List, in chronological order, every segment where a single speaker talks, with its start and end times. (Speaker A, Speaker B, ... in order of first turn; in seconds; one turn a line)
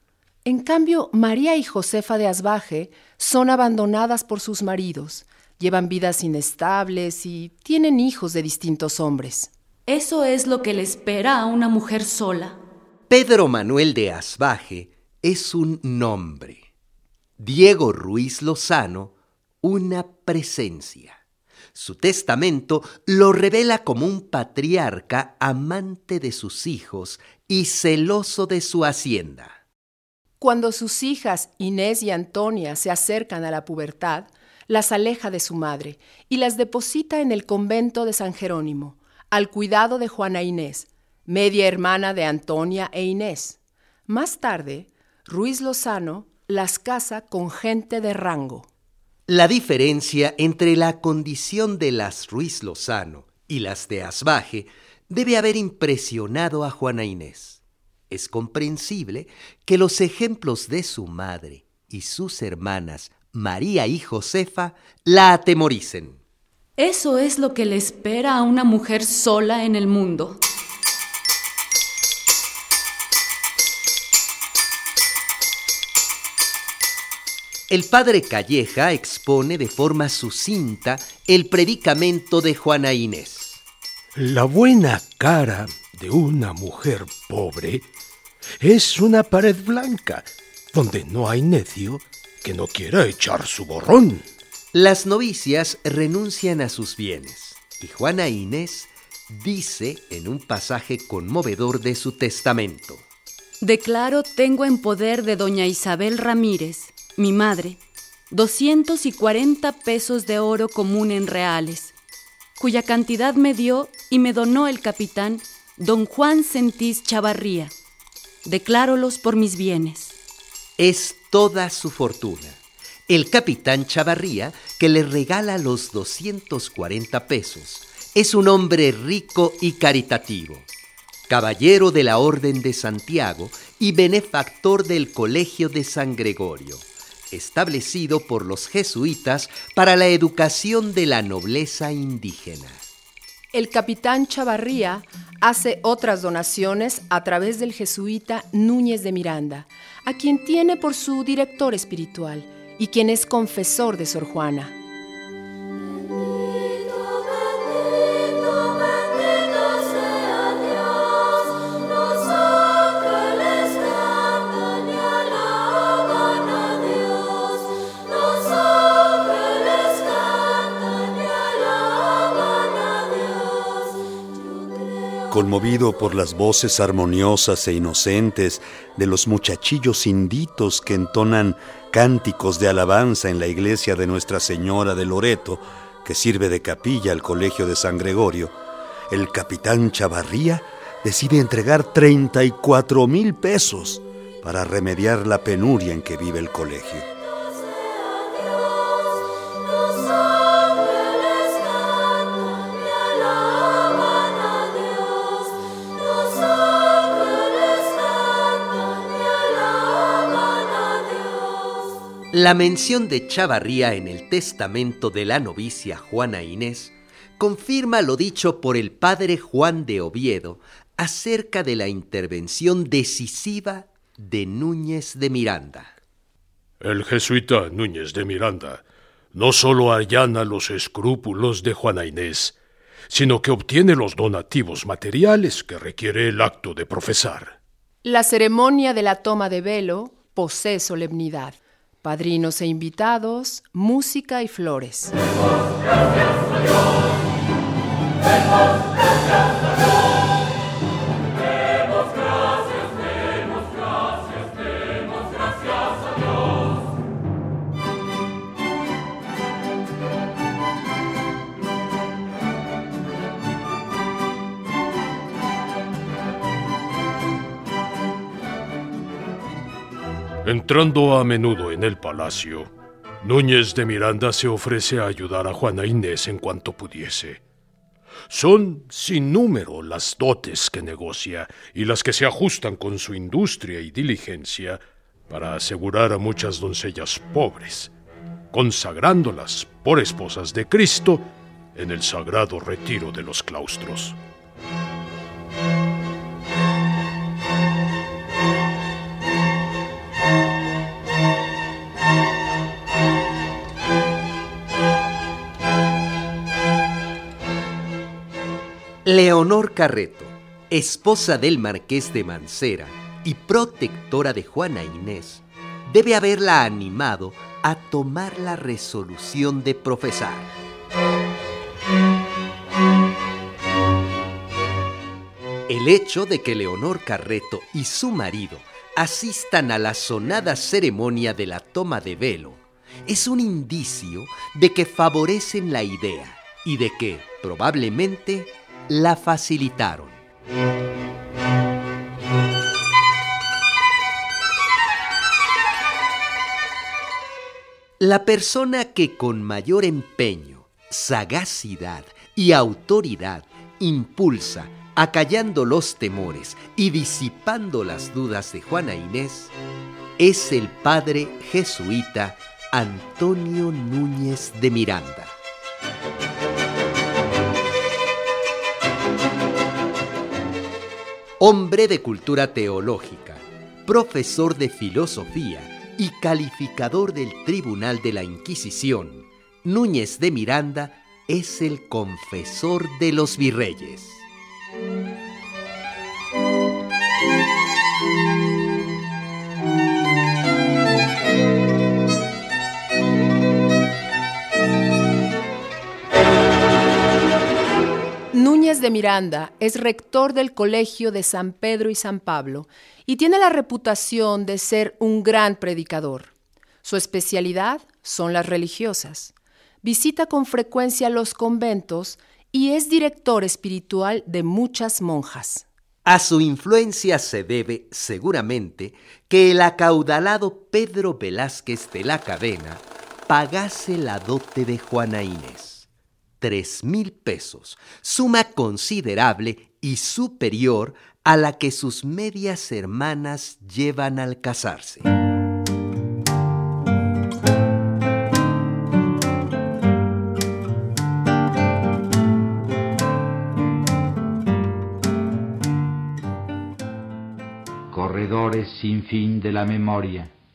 Speaker A: 0.4-9.5
Speaker B: 9.9-12.6
Speaker C: 13.1-16.6
Speaker C: 17.4-21.2
Speaker C: 21.7-29.6
Speaker A: 30.4-48.7
Speaker C: 49.3-66.2
Speaker B: 66.8-70.4
Speaker C: 77.7-83.6
Speaker D: 84.1-87.8
Speaker D: 88.6-94.2
Speaker C: 94.7-103.0
Speaker B: 103.6-107.8
Speaker B: 108.3-111.9
Speaker B: 112.6-117.7
Speaker B: 118.4-120.1
Speaker C: 120.8-130.7
Speaker C: 131.3-142.8
Speaker A: 143.5-154.7
Speaker E: 175.3-188.5
Speaker E: 189.1-197.1
Speaker C: 212.3-225.9
Speaker D: 226.8-228.8
Speaker D: 229.3-232.5
Speaker D: 233.1-237.5
Speaker A: 238.0-245.2
Speaker D: 270.5-272.7
Speaker D: 273.2-277.4
Speaker D: 278.3-284.8
Speaker D: 285.3-287.9
Speaker D: 288.5-291.2
Speaker D: 291.8-294.1
Speaker C: 309.0-320.5
Speaker C: 325.7-340.2
Speaker C: 348.0-359.5
Speaker C: 360.2-365.3
Speaker C: 371.4-384.2
Speaker A: 398.3-406.3
Speaker A: 406.8-409.3
Speaker A: 409.8-415.6
Speaker C: 416.0-425.9
Speaker C: 426.4-435.1
Speaker F: 447.9-450.3